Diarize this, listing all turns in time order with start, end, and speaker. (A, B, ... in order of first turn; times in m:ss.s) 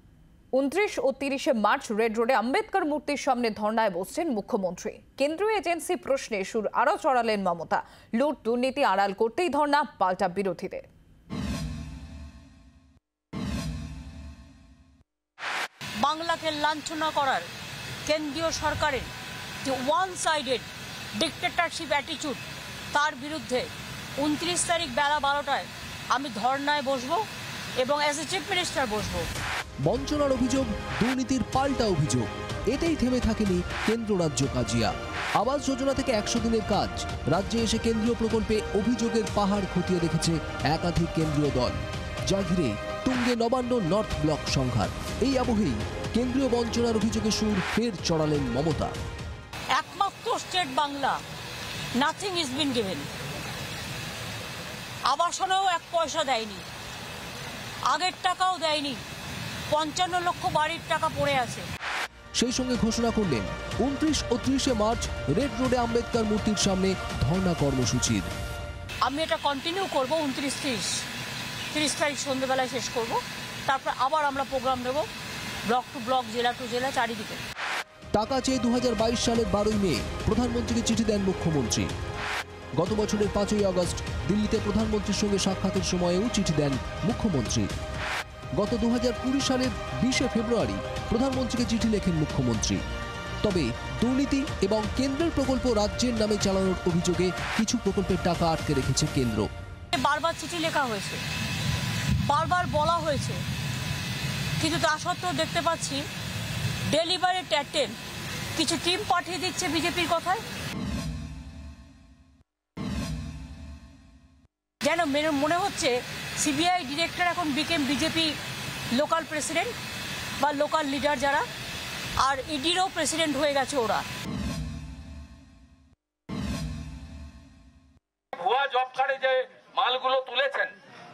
0:00.6-0:10.8 A
0:16.0-0:17.4 B
0:18.0-0:19.1 B
0:19.6-0:22.4 B
0:22.9-0:23.7 B
0:24.2-0:27.2 B
0:27.8-0:29.2 B
0:29.8-0:48.9 C
0:49.8-0:51.2 B
0:52.0-0:53.1 B
0:55.1-0:56.6 B
0:57.9-0:59.0 B
0:59.7-1:01.7 B
1:02.4-1:08.3 C
1:09.0-1:11.1 B
1:11.7-1:15.1 B
1:15.7-1:17.4 B
1:18.1-1:21.9 C
1:22.8-1:27.7 C
1:28.6-1:32.8 C
1:33.4-1:39.5 C
1:39.9-1:41.2 B
1:42.2-1:43.4 B
1:44.6-1:46.0 B
1:46.9-1:48.0 B
1:48.6-1:50.4 B
1:54.8-1:58.4 B
1:58.9-1:59.7 B
2:00.4-2:01.4 B
2:02.2-2:04.0 B
2:08.4-2:10.7 D